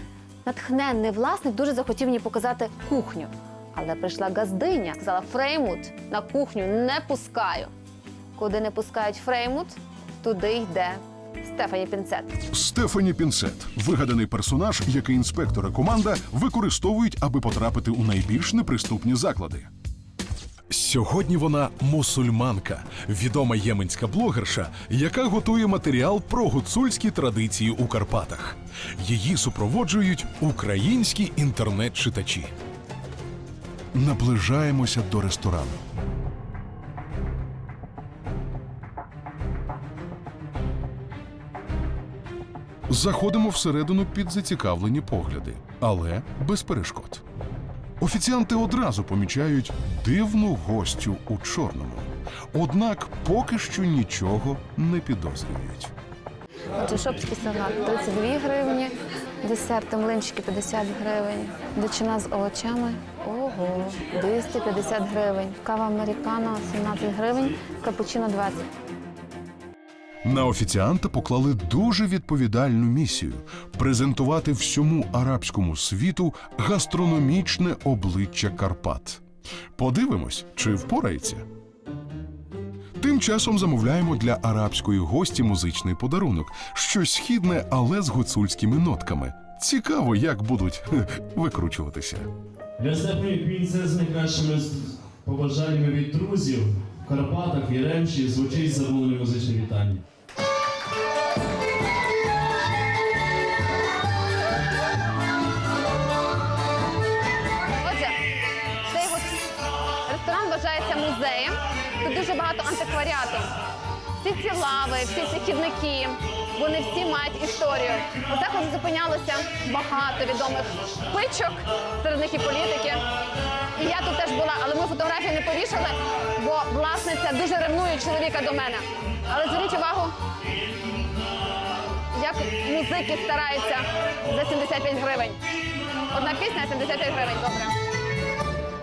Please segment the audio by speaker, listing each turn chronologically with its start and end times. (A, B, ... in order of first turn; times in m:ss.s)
0:00.4-0:07.7 A
0:08.4-0:12.4 A
0:12.5-0:19.7 B
0:20.7-0:32.5 B
0:33.9-0:35.8 B
0:42.9-0:47.2 B
0:48.0-0:55.9 B
0:56.8-1:08.6 A
1:10.2-1:19.2 B
1:19.8-1:21.4 B
1:23.0-1:32.3 B
1:32.8-1:34.4 C
1:33.5-1:34.7 B
1:35.3-1:39.8 C
1:35.3-1:40.0 B
1:47.8-1:48.2 A
1:48.8-1:53.5 A
1:54.2-2:03.1 A
2:03.7-2:10.1 A
2:12.1-2:15.4 A
2:16.1-2:17.8 A